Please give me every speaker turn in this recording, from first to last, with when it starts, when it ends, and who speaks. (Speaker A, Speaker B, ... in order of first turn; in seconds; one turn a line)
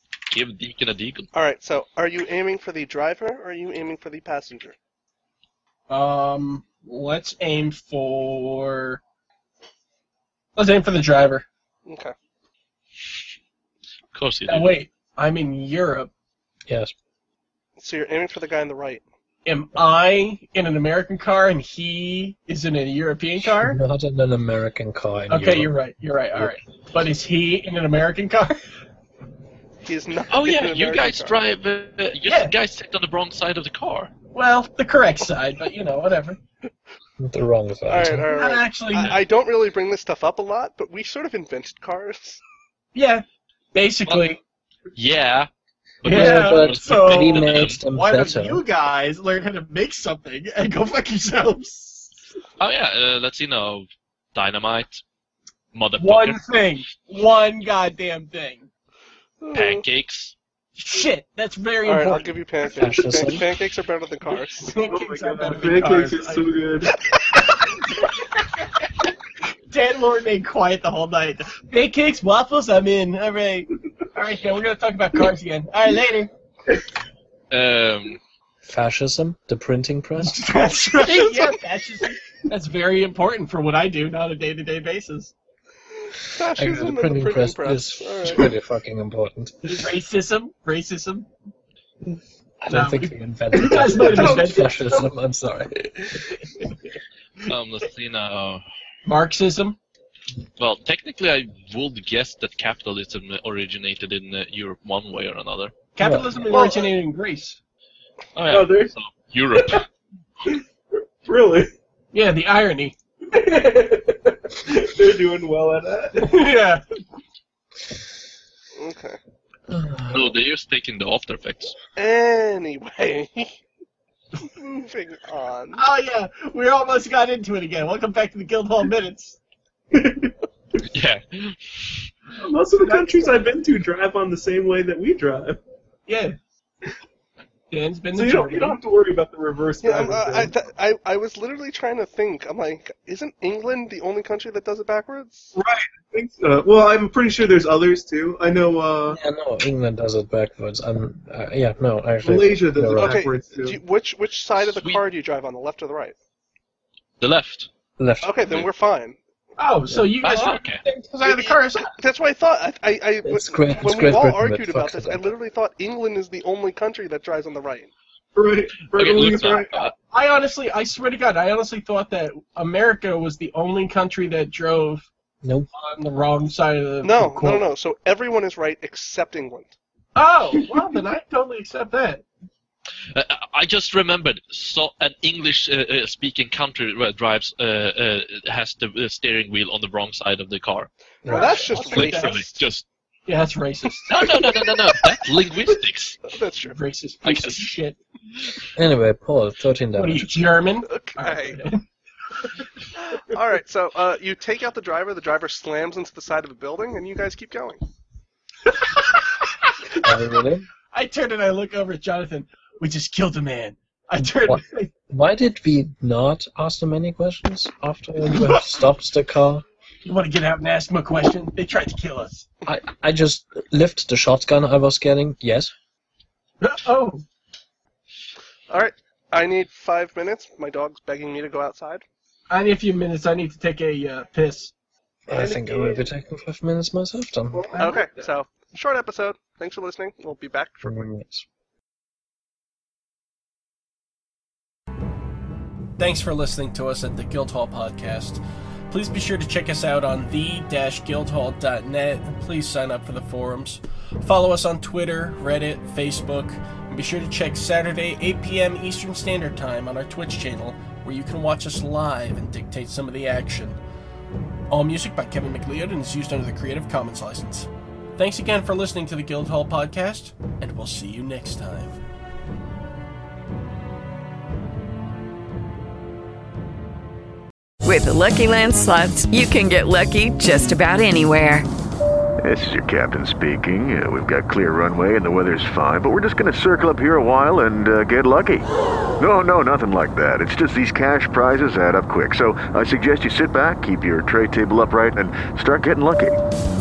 Speaker A: 0.3-1.3
Speaker B: 1.3-4.8
Speaker C: 5.9-9.0
Speaker C: 10.6-11.5
Speaker B: 11.9-12.1
Speaker A: 14.1-14.8
Speaker C: 14.5-16.1
Speaker D: 16.7-16.9
Speaker B: 17.8-19.0
Speaker C: 19.4-23.8
Speaker D: 23.5-25.8
Speaker C: 25.3-28.6
Speaker B: 29.9-31.4
Speaker A: 30.3-34.1
Speaker C: 32.3-32.5
Speaker C: 34.3-36.4
Speaker D: 37.2-38.3
Speaker B: 37.9-42.4
Speaker C: 38.3-39.2
Speaker C: 42.9-44.4
Speaker A: 44.1-44.4
Speaker A: 45.0-45.5
Speaker A: 46.0-47.8
Speaker C: 46.0-52.1
Speaker D: 46.1-48.6
Speaker A: 52.6-55.0
Speaker A: 55.7-56.4
Speaker C: 56.0-58.7
Speaker B: 59.4-59.9
Speaker A: 59.5-60.3
Speaker C: 60.8-62.3
Speaker B: 61.8-64.7
Speaker D: 62.8-63.5
Speaker C: 64.6-69.1
Speaker E: 64.8-66.9
Speaker C: 69.7-76.3
Speaker A: 77.5-78.2
Speaker D: 78.7-80.6
Speaker C: 80.2-85.3
Speaker E: 80.6-81.5
Speaker B: 86.3-88.5
Speaker D: 86.6-89.8
Speaker C: 89.6-91.3
Speaker D: 92.6-96.3
Speaker C: 92.7-95.1
Speaker E: 93.6-94.7
Speaker C: 96.2-96.9
Speaker A: 97.5-98.6
Speaker C: 99.1-99.8
Speaker A: 100.6-105.8
Speaker C: 106.0-107.6
Speaker D: 106.0-106.6
Speaker A: 108.3-109.9
Speaker E: 108.5-108.9
Speaker E: 109.5-109.8
Speaker E: 111.2-111.7
Speaker C: 112.1-113.0
Speaker E: 113.3-116.4
Speaker C: 116.2-116.8
Speaker B: 118.8-119.2
Speaker D: 119.7-120.3
Speaker A: 120.1-121.8
Speaker B: 122.0-123.6
Speaker B: 124.5-125.8
Speaker C: 125.8-129.4
Speaker E: 129.9-130.3
Speaker A: 130.9-132.0
Speaker E: 132.4-135.6
Speaker C: 132.8-133.5
Speaker C: 136.1-136.4
Speaker C: 137.7-138.8
Speaker E: 138.1-140.6
Speaker B: 139.8-145.6
Speaker E: 145.6-149.2
Speaker D: 149.1-153.2
Speaker E: 152.2-153.8
Speaker B: 153.0-156.2
Speaker A: 154.6-155.0
Speaker A: 157.2-157.7
Speaker D: 158.0-158.4
Speaker B: 158.2-159.2
Speaker C: 159.6-161.9
Speaker A: 160.2-160.8
Speaker B: 161.2-167.9
Speaker D: 163.2-165.3
Speaker E: 168.3-169.9
Speaker A: 168.9-169.9
Speaker C: 170.1-175.1
Speaker D: 175.4-175.7
Speaker C: 175.7-177.3
Speaker B: 177.0-179.8
Speaker D: 177.2-177.7
Speaker C: 180.2-182.2
Speaker A: 183.1-190.9
Speaker D: 191.2-191.6
Speaker B: 191.3-192.7
Speaker C: 191.3-192.4
Speaker A: 191.5-192.8
Speaker C: 193.3-194.7
Speaker A: 194.1-196.2
Speaker B: 196.3-196.8
Speaker C: 196.7-198.0
Speaker A: 197.2-197.7
Speaker D: 198.8-200.5
Speaker C: 199.9-201.9
Speaker B: 200.9-201.6
Speaker B: 203.1-207.8
Speaker C: 208.7-210.2
Speaker D: 210.0-210.7
Speaker C: 210.9-214.9
Speaker D: 214.2-219.7
Speaker C: 218.3-218.6
Speaker C: 220.0-222.5
Speaker D: 222.7-225.7
Speaker C: 226.6-227.2
Speaker B: 228.7-232.1
Speaker C: 232.5-234.7
Speaker D: 235.3-237.8
Speaker C: 235.3-236.1
Speaker E: 237.5-238.0
Speaker C: 237.7-238.1
Speaker B: 237.8-241.1
Speaker D: 240.8-241.5
Speaker C: 246.0-263.8
Speaker C: 264.7-272.0
Speaker F: 277.8-281.7
Speaker G: 282.4-296.4